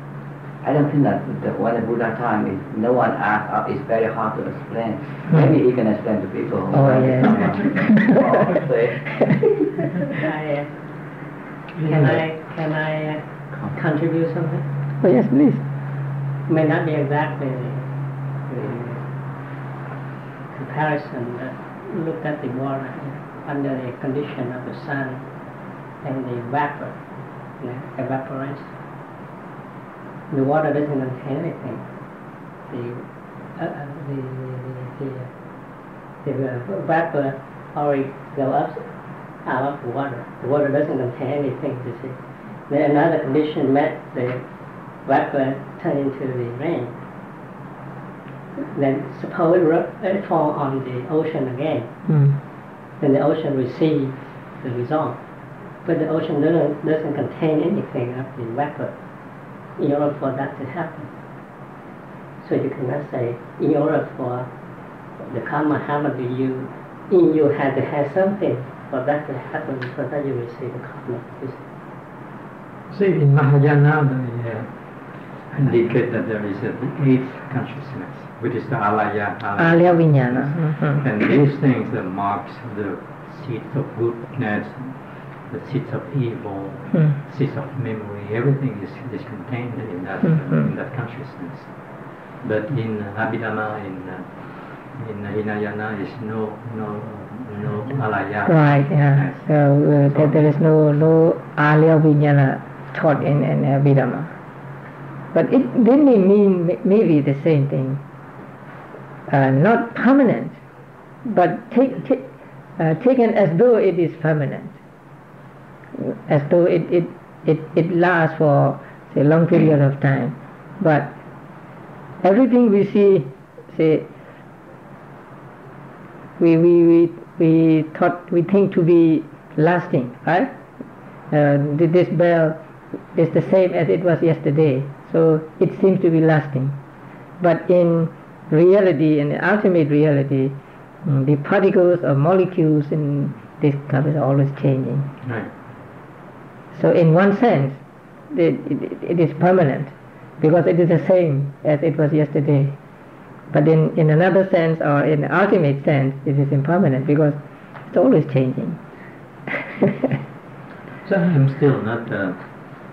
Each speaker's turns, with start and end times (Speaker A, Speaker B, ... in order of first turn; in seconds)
Speaker A: 0.6-9.1
Speaker B: 6.7-8.3, 9.1-9.5, 15.0-15.6, 52.1-52.4, 79.6-81.0, 90.2-90.7, 98.4-104.3, 105.3-108.0, 109.3-110.6, 111.2-112.2, 112.8-114.8, 116.0-121.1, 122.2-124.1, 126.4-130.5, 131.3-132.6, 133.1-136.8, 137.4-140.5, 141.1-145.1, 146.7-147.8, 148.3-152.8, 153.5-158.8, 159.8-160.1
Speaker C: 10.2-10.7, 11.8-14.6, 16.5-17.9, 18.5-19.1, 20.5-25.2, 26.0-27.0, 27.6-28.7, 30.3-31.8, 32.7-33.0, 33.5-35.3, 36.2-38.9, 39.4-44.4, 45.0-46.9, 48.5-51.9, 53.0-55.2, 55.8-58.9, 59.8-61.1, 62.4-64.5, 65.2-71.6
Speaker D: 72.9-100.4, 145.2-145.5, 161.0-162.4